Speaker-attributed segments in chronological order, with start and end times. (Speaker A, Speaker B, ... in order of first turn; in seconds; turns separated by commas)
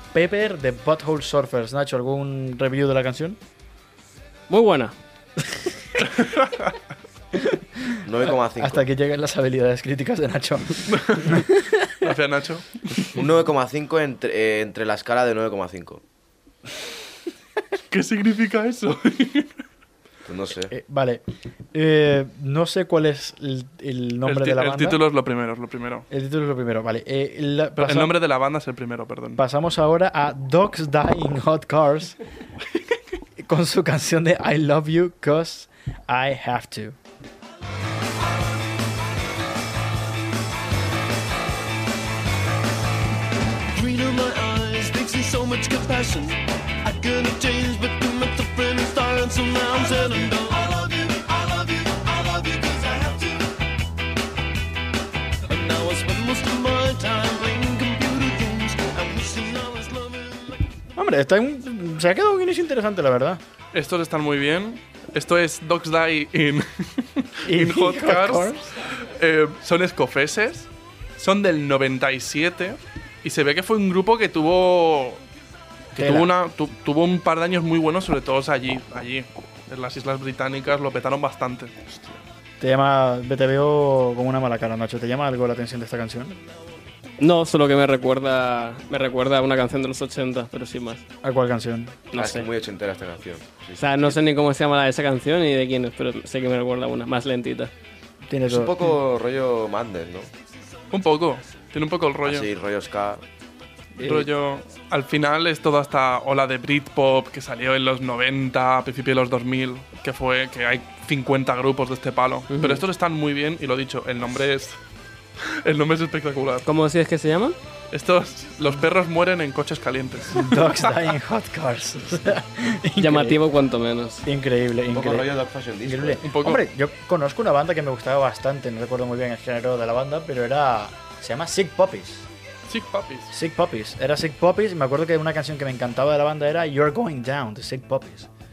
Speaker A: 0.1-3.4, Speaker B: 4.5-4.9, Speaker A: 5.4-5.8, Speaker C: 6.0-6.7, Speaker A: 7.3-12.1, Speaker D: 8.0-8.8, Speaker C: 10.9-11.4, Speaker C: 12.0-13.2, Speaker D: 13.1-16.0, Speaker C: 17.9-19.5, Speaker D: 20.2-20.7, Speaker A: 20.7-21.2, Speaker A: 21.7-25.0, Speaker C: 24.2-26.1, Speaker A: 26.1-28.1, Speaker C: 27.8-29.4, Speaker A: 29.4-32.2, Speaker A: 33.4-37.0, Speaker E: 43.7-53.4, Speaker E: 55.5-60.6, Speaker A: 61.0-63.4, Speaker C: 63.7-75.2, Speaker A: 67.4-68.7, Speaker C: 75.9-81.7, Speaker A: 76.0-76.3, Speaker D: 81.9-82.2, Speaker A: 82.6-86.4, Speaker B: 87.2-91.0, Speaker A: 91.2-92.0, Speaker B: 92.1-92.5, Speaker D: 92.1-94.2, Speaker B: 93.8-97.7, Speaker A: 98.3-98.9, Speaker D: 98.5-100.3, Speaker C: 100.9-102.5, Speaker D: 102.2-103.2, Speaker A: 104.0-104.3, Speaker C: 104.0-114.8, Speaker B: 112.5-112.8, Speaker C: 115.4-116.7, Speaker B: 116.6-117.5, Speaker C: 117.9-121.1, Speaker A: 120.3-123.4, Speaker B: 123.0-124.2, Speaker A: 124.2-125.3, Speaker D: 124.9-126.2, Speaker A: 125.8-132.3, Speaker C: 126.2-126.6, Speaker C: 132.7-133.3, Speaker A: 133.3-138.3